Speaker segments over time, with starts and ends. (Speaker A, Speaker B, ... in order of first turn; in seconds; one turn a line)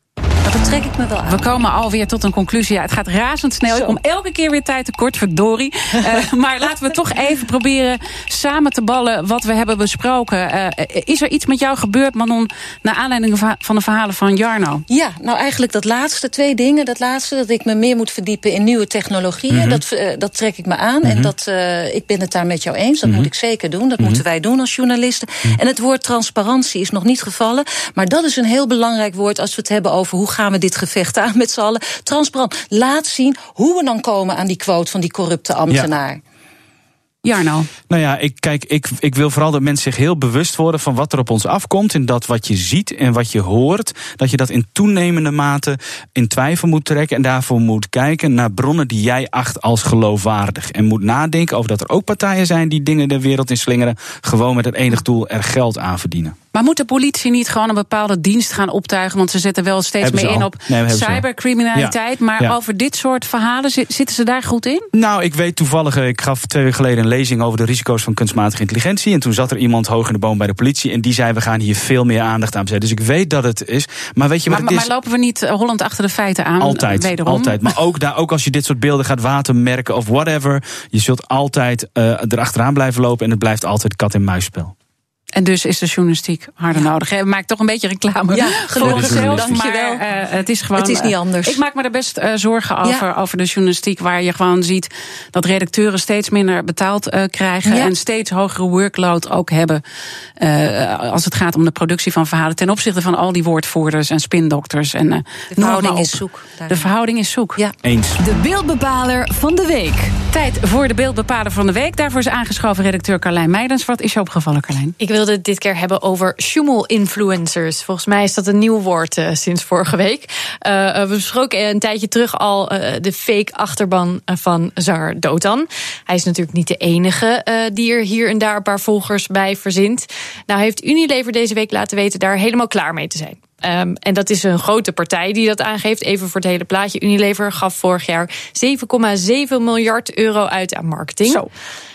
Speaker A: 0.4-1.6
Speaker B: 1.3-14.8
Speaker A: 14.9-36.2
Speaker C: 19.5-19.8
Speaker C: 21.0-21.3
Speaker B: 37.2-37.7
Speaker C: 37.9-56.4
Speaker B: 56.5-64.9
Speaker C: 60.0-62.6
Speaker C: 64.9-74.9
Speaker B: 74.5-77.6
Speaker C: 76.6-84.7
Speaker B: 85.3-99.8
Speaker A: 88.3-90.0
Speaker C: 88.8-89.5
Speaker A: 90.8-91.6
Speaker A: 97.7-97.9
Speaker B: 100.4-107.6
Speaker A: 105.5-106.9
Speaker C: 107.8-108.2
Speaker D: 108.2-110.2
Speaker E: 108.8-109.9
Speaker B: 110.3-115.0
Speaker E: 115.0-141.5